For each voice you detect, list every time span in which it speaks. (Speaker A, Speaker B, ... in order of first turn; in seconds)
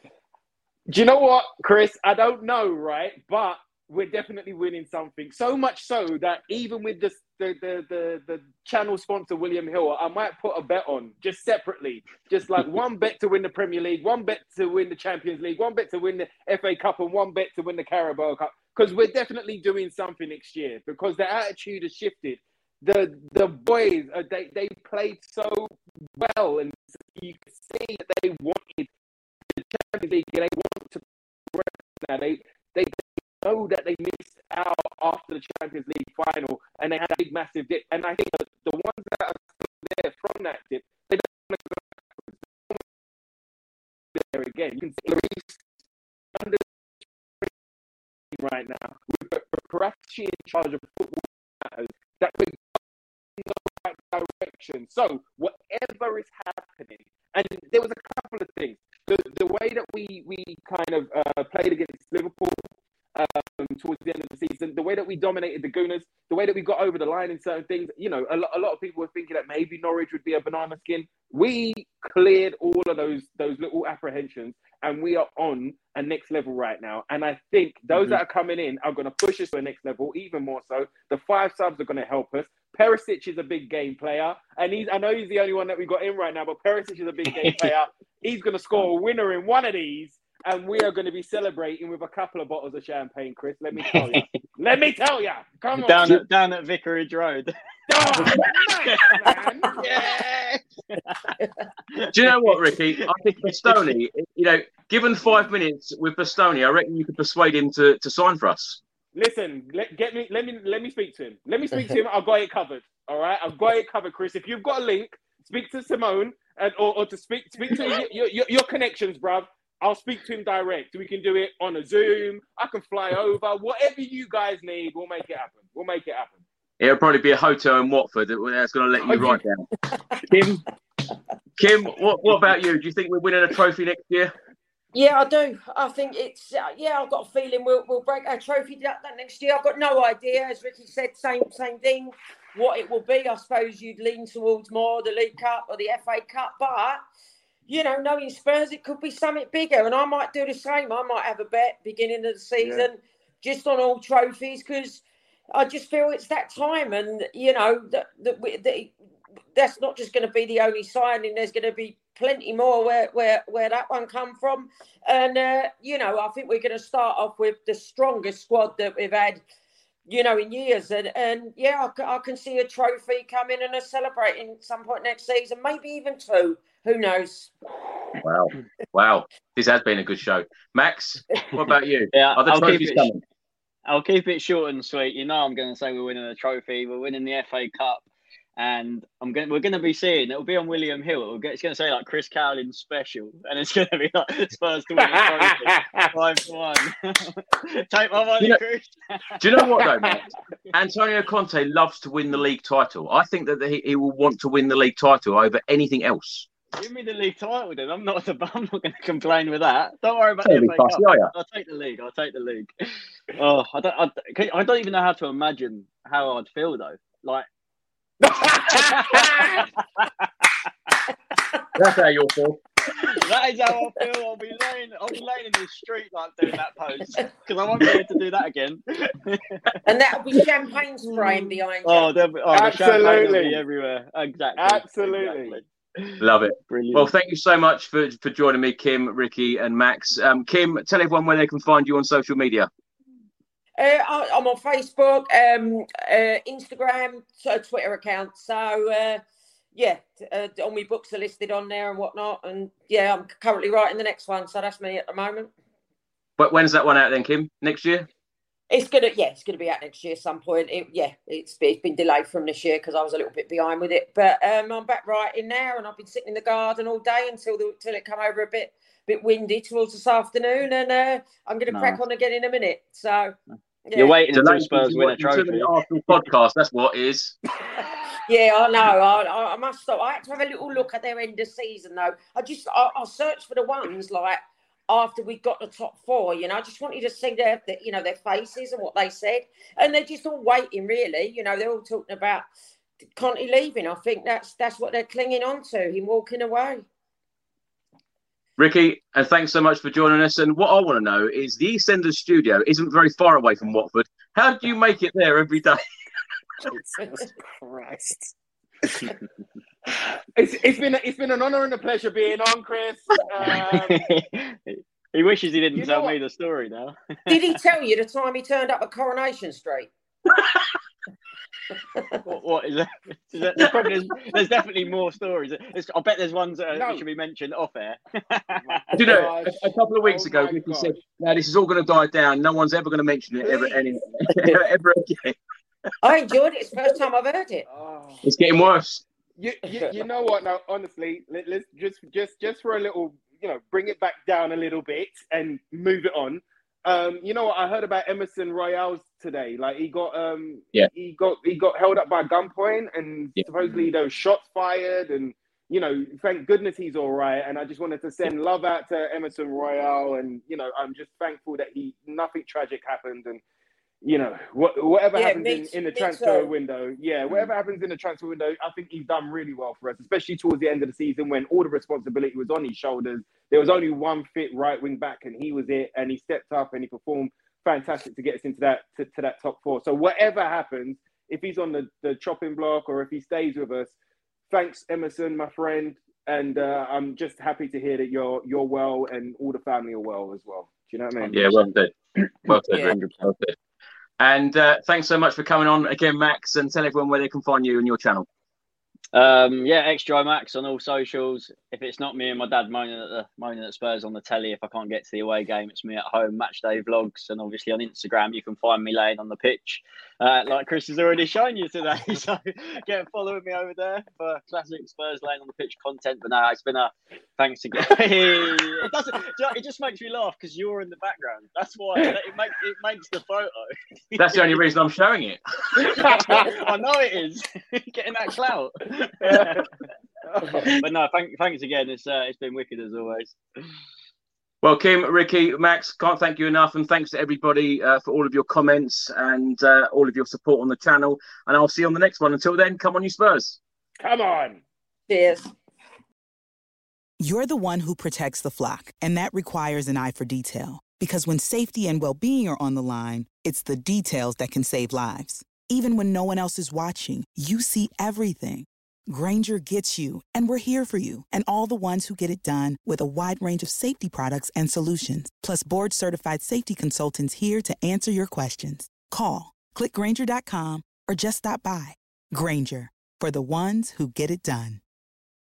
Speaker A: 0.9-42.9, 44.1-45.7, 46.3-47.5, 48.3-96.2, 97.9-100.6, 109.2-126.4, 129.1-129.4, 152.6-152.9, 195.0-196.1, 218.2-219.7, 232.5-233.6, 234.6-235.6, 306.7-309.1, 310.4-314.1, 315.7-316.2, 326.7-327.1, 328.6-331.0, 337.7-338.3, 339.4-363.4, 364.0-384.0, 384.5-391.6, 426.1-426.4, 429.2-429.7, 430.2-430.7, 444.0-444.6
Speaker B: 87.4-87.7, 93.8-94.3, 95.8-97.5, 98.9-99.1, 101.9-102.7, 103.4-103.9, 182.1-183.1, 183.9-188.1, 188.6-199.8, 206.8-212.7, 213.3-217.5, 218.7-220.3, 222.9-229.8, 231.8-237.1, 271.7-272.0, 274.0-275.7, 313.6-317.4, 322.2-328.9, 391.2-391.6, 392.4-393.3, 399.1-424.6, 425.8-429.7, 430.6-433.4
Speaker C: 102.1-108.8, 126.8-130.6, 131.6-134.3, 178.2-183.2, 199.4-206.5, 210.4-211.3, 221.8-222.6, 236.2-242.7, 256.4-258.1, 274.3-277.4, 298.6-305.8, 328.9-335.4, 338.2-339.0, 391.3-391.9, 392.5-393.6, 394.2-398.3, 424.2-426.1, 434.6-443.6
Speaker D: 134.9-147.0, 147.7-158.9, 159.6-169.4, 170.1-177.5, 229.8-232.1, 243.8-249.2, 249.8-255.5, 258.7-273.4, 273.9-274.2, 278.3-292.5, 293.2-296.9, 317.3-319.9, 336.0-337.7, 365.1-366.5, 445.1-445.5
Speaker E: 447.2-474.8